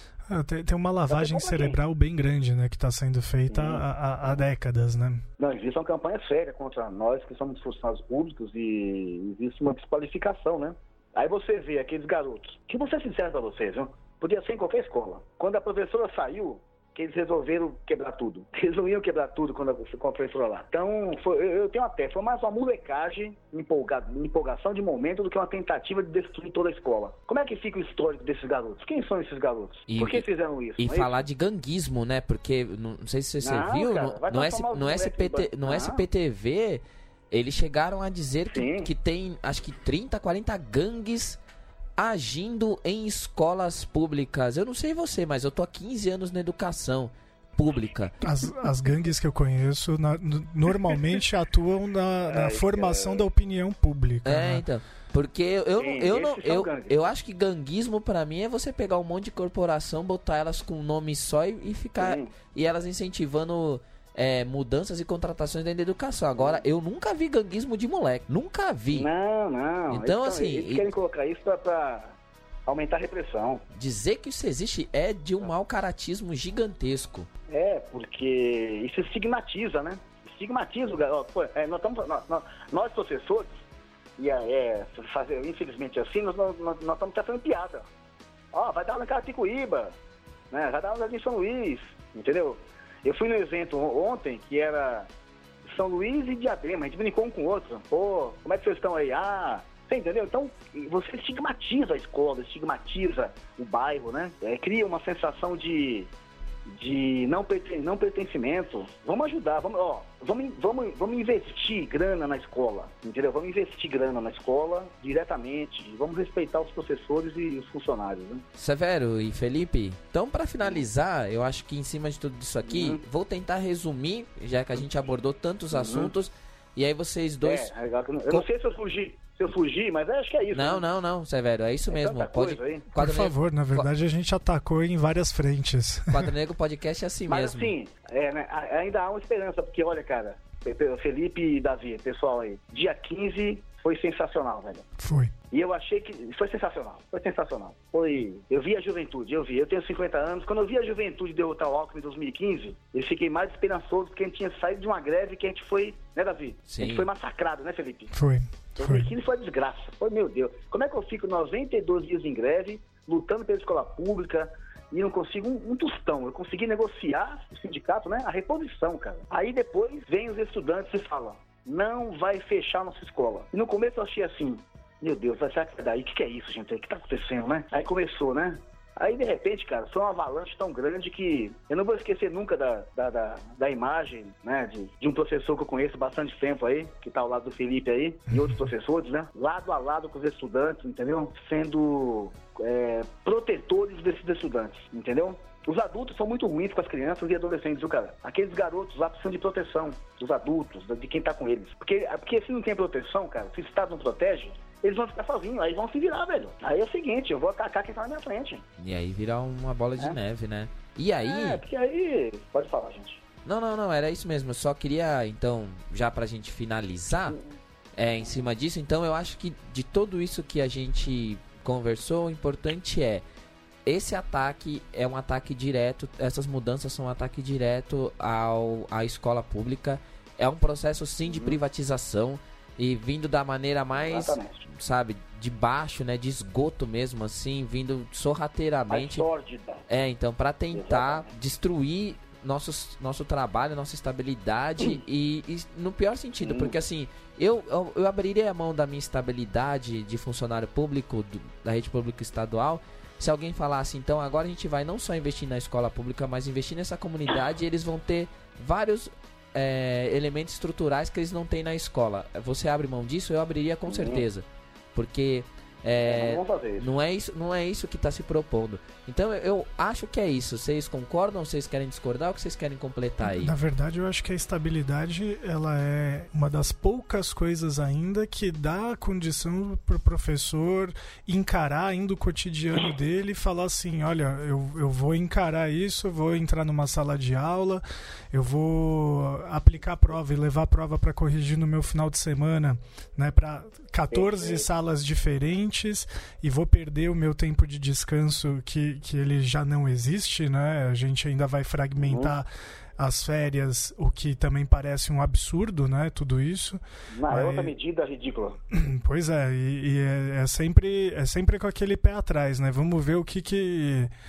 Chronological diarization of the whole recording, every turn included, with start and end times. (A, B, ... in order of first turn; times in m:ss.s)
0:00.3-0:05.2 A
0:01.1-0:01.8 B
0:03.5-0:03.8 B
0:05.4-0:31.2 B
0:29.9-0:30.2 C
0:30.8-0:41.4 C
0:33.4-0:36.0 B
0:38.5-0:38.9 B
0:42.0-0:48.1 C
0:48.2-0:54.6 A
0:52.3-0:53.3 B
0:54.2-1:09.1 C
0:55.8-0:57.0 B
1:02.0-1:02.3 B
1:06.4-1:06.6 B
1:08.9-1:13.6 B
1:09.9-1:10.8 C
1:13.7-1:17.3 C
1:17.5-1:23.6 B
1:24.2-1:27.8 B
1:28.5-1:30.0 B
1:30.5-1:35.1 B
1:35.6-1:46.1 B
1:46.7-1:58.4 B
1:58.6-2:07.7 C
2:02.6-2:03.0 B
2:05.7-2:06.1 B
2:07.4-2:10.8 B
2:10.5-2:13.9 C
2:11.9-2:12.8 B
2:13.0-2:16.3 A
2:16.1-2:17.7 C
2:17.3-2:24.8 B
2:25.0-2:25.3 A
2:25.5-2:38.1 B
2:36.7-2:37.1 C
2:38.1-2:39.1 A
2:38.8-3:28.6 B
3:28.8-3:31.6 C
3:31.2-3:33.2 B
3:33.4-3:37.4 C
3:38.0-3:43.2 C
3:43.8-3:59.2 C
3:51.2-3:51.6 B
3:53.9-3:54.6 B
3:58.9-3:59.8 B
3:59.9-4:33.5 C
4:00.7-4:01.3 B
4:06.4-4:06.8 B
4:23.9-4:24.2 B
4:26.0-4:26.9 B
4:33.2-5:02.5 A
4:54.1-4:54.6 B
5:02.0-5:02.3 B
5:03.0-5:07.7 A
5:07.1-5:08.6 B
5:08.7-5:14.1 A